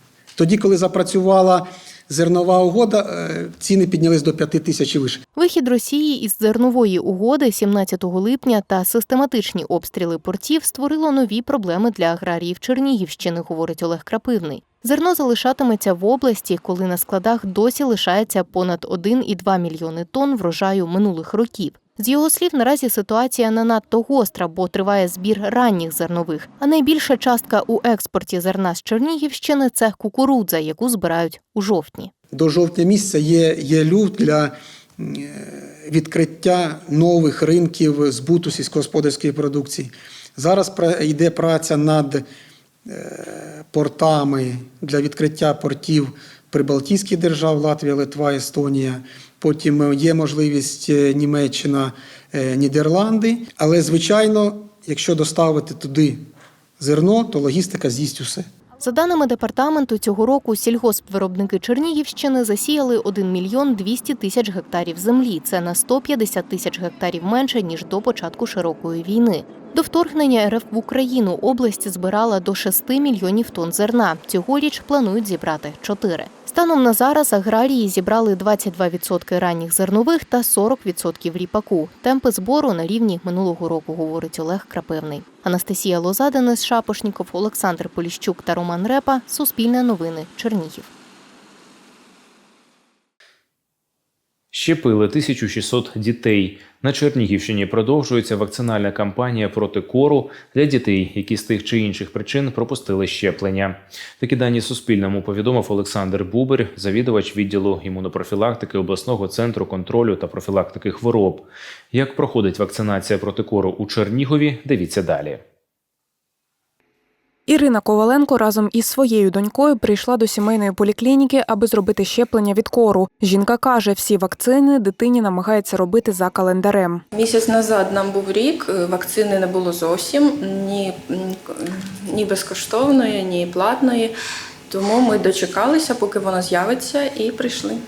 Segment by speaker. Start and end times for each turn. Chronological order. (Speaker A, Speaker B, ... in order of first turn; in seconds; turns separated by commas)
Speaker A: 0.4-5.2, Speaker B: 5.3-32.1, Speaker A: 32.3-42.2, Speaker A: 42.9-56.2, Speaker A: 56.8-58.5, Speaker B: 58.8-90.9, Speaker C: 94.5-115.4, Speaker D: 117.5-127.0, Speaker E: 127.1-131.4, Speaker E: 132.1-134.1, Speaker E: 134.7-137.8